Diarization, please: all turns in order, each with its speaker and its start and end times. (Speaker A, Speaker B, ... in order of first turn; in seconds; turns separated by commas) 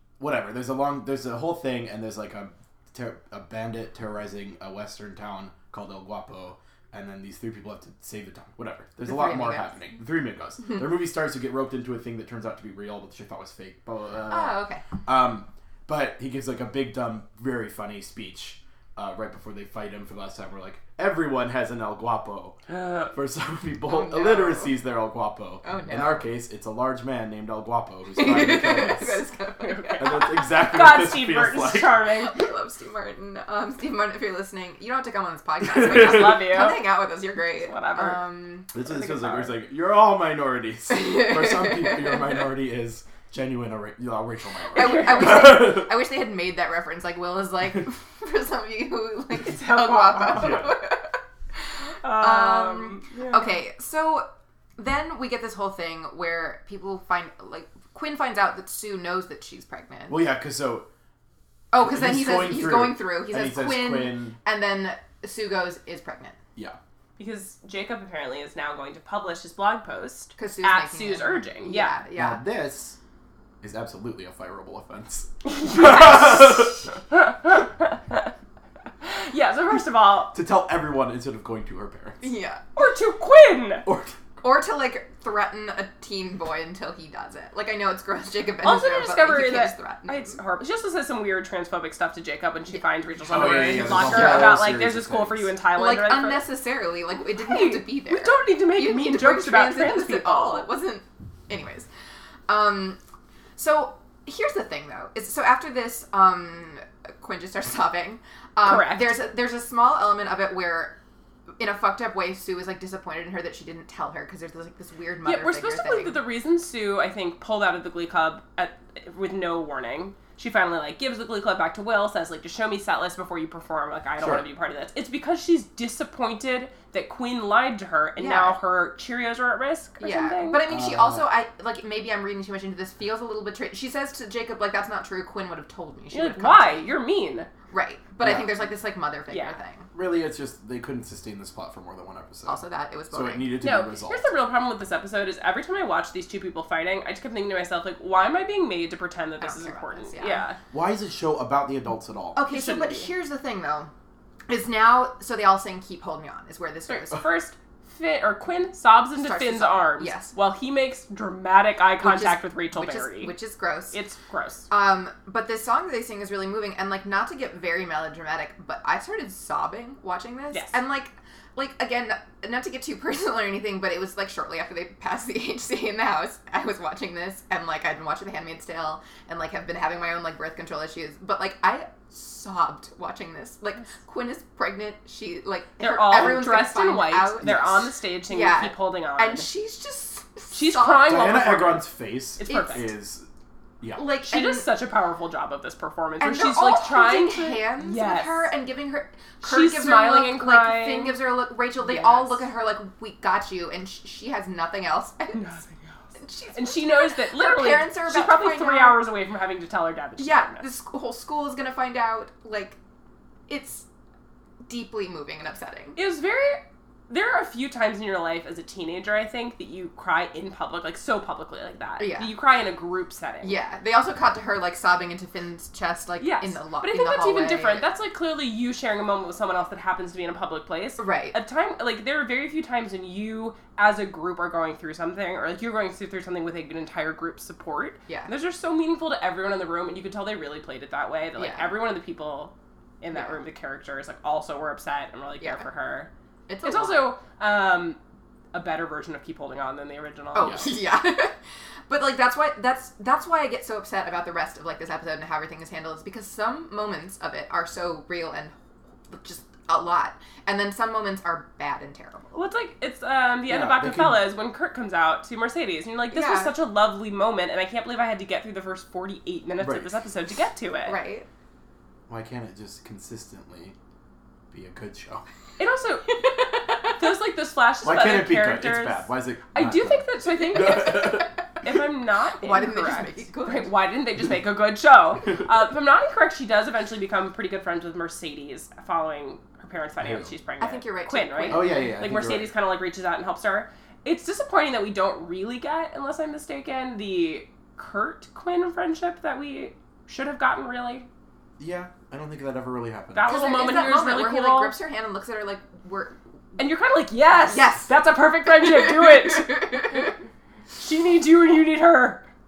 Speaker A: 0.2-29.3, Speaker B: 9.0-9.9, Speaker B: 14.3-14.8, Speaker C: 22.7-23.1, Speaker B: 23.9-24.8, Speaker B: 25.6-26.3, Speaker B: 28.1-30.3, Speaker C: 29.6-32.4, Speaker A: 30.0-32.0, Speaker B: 32.2-38.7, Speaker A: 35.7-36.5, Speaker C: 35.7-36.9, Speaker C: 37.6-39.6, Speaker A: 38.7-45.9, Speaker B: 40.9-42.2, Speaker B: 44.7-51.2, Speaker C: 44.8-45.3, Speaker C: 49.4-50.6, Speaker A: 50.3-50.8, Speaker C: 52.0-53.6, Speaker B: 52.0-60.2, Speaker A: 60.1-60.9, Speaker B: 61.7-66.4, Speaker A: 61.8-64.4, Speaker C: 67.2-72.0, Speaker B: 70.4-72.4, Speaker A: 72.1-73.0, Speaker A: 73.6-76.8, Speaker C: 75.5-78.3, Speaker C: 79.0-80.3, Speaker A: 80.3-82.3, Speaker B: 82.2-82.6, Speaker C: 82.7-83.9, Speaker A: 83.8-84.1, Speaker B: 84.4-90.4, Speaker C: 88.6-96.5, Speaker A: 93.2-95.5, Speaker B: 93.3-94.6, Speaker B: 95.7-101.9, Speaker C: 97.3-100.7, Speaker B: 102.5-103.0, Speaker B: 103.5-111.0, Speaker C: 108.6-109.3, Speaker B: 111.6-116.2, Speaker C: 115.2-130.6, Speaker A: 124.2-124.5, Speaker B: 128.2-128.6, Speaker B: 130.0-136.9, Speaker A: 130.7-131.3, Speaker C: 136.1-137.5, Speaker B: 137.7-139.9, Speaker A: 138.2-138.6, Speaker C: 139.3-139.6, Speaker A: 139.9-144.3, Speaker B: 142.4-143.6, Speaker C: 143.6-150.6, Speaker B: 149.4-150.4, Speaker A: 150.7-152.4, Speaker B: 152.3-153.9, Speaker C: 152.4-153.1, Speaker B: 154.5-157.3, Speaker C: 156.9-163.4, Speaker B: 159.2-160.3, Speaker B: 162.0-164.0, Speaker C: 163.9-164.7, Speaker B: 164.7-191.7, Speaker C: 170.5-170.8, Speaker C: 185.8-189.5, Speaker A: 187.4-187.8, Speaker C: 190.5-192.9, Speaker A: 191.1-193.3, Speaker B: 192.4-192.9, Speaker B: 193.9-194.7, Speaker C: 194.1-198.5, Speaker B: 196.2-205.5, Speaker C: 199.4-202.4, Speaker C: 205.3-206.0, Speaker B: 206.2-209.0, Speaker C: 206.5-210.7, Speaker B: 210.2-212.8, Speaker B: 213.5-213.9, Speaker B: 214.6-216.0, Speaker C: 215.9-223.6, Speaker B: 222.0-222.3, Speaker B: 223.4-227.9, Speaker C: 226.2-246.1, Speaker B: 231.0-231.4, Speaker B: 241.4-241.7, Speaker B: 243.1-243.4, Speaker B: 245.4-245.7, Speaker B: 246.5-247.1, Speaker C: 246.6-248.0, Speaker C: 248.5-250.9, Speaker B: 250.3-251.3, Speaker B: 251.9-258.6, Speaker B: 259.1-262.4, Speaker C: 262.3-271.0, Speaker A: 263.5-264.2, Speaker B: 266.1-266.6, Speaker A: 269.6-269.9, Speaker B: 270.9-271.3, Speaker A: 272.1-273.7, Speaker A: 274.5-275.3, Speaker C: 275.6-276.2, Speaker B: 276.1-277.0, Speaker C: 276.8-301.1, Speaker A: 277.8-281.3, Speaker B: 282.4-283.8, Speaker A: 290.0-290.3, Speaker B: 290.6-291.9, Speaker A: 291.5-292.5, Speaker A: 301.6-303.4, Speaker C: 303.1-304.8, Speaker B: 303.2-306.6, Speaker C: 306.6-310.1, Speaker B: 307.4-310.1, Speaker C: 310.8-312.3